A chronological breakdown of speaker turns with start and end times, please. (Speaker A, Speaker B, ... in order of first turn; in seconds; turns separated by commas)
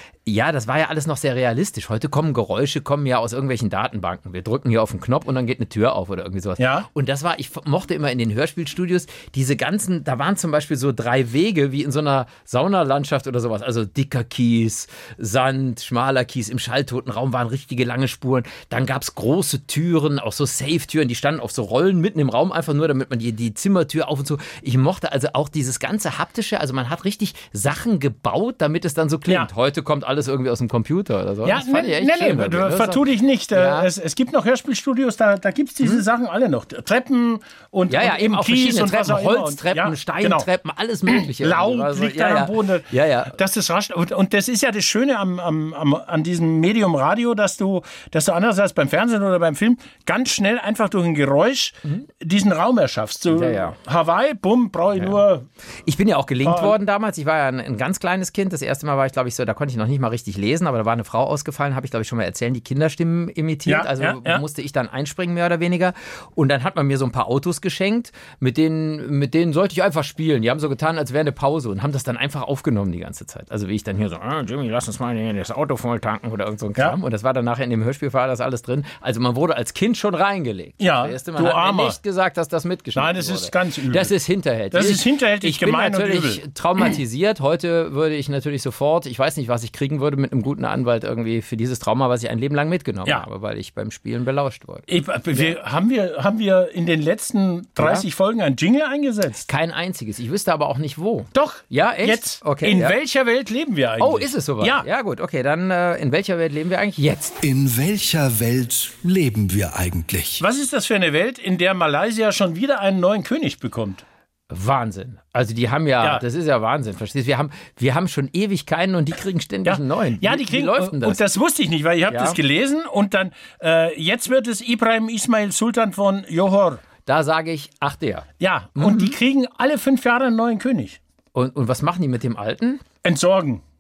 Speaker A: 0.3-33.9, Speaker B: 6.6-6.9, Speaker B: 31.4-40.5, Speaker A: 37.9-43.4, Speaker B: 41.1-55.5, Speaker A: 53.3-53.8, Speaker A: 55.9-95.5, Speaker B: 56.4-56.8, Speaker B: 63.7-64.4, Speaker B: 80.8-82.0, Speaker B: 83.0-84.1, Speaker B: 84.7-86.4, Speaker B: 94.9-99.5, Speaker A: 97.8-98.1, Speaker A: 99.5-103.0, Speaker B: 101.3-104.9, Speaker A: 104.0-107.4, Speaker C: 107.4-110.4, Speaker B: 110.4-114.0, Speaker A: 114.5-121.2, Speaker B: 119.7-126.8, Speaker A: 122.1-122.4, Speaker A: 127.0-129.2, Speaker B: 128.4-131.0, Speaker A: 131.3-132.8, Speaker B: 133.0-133.6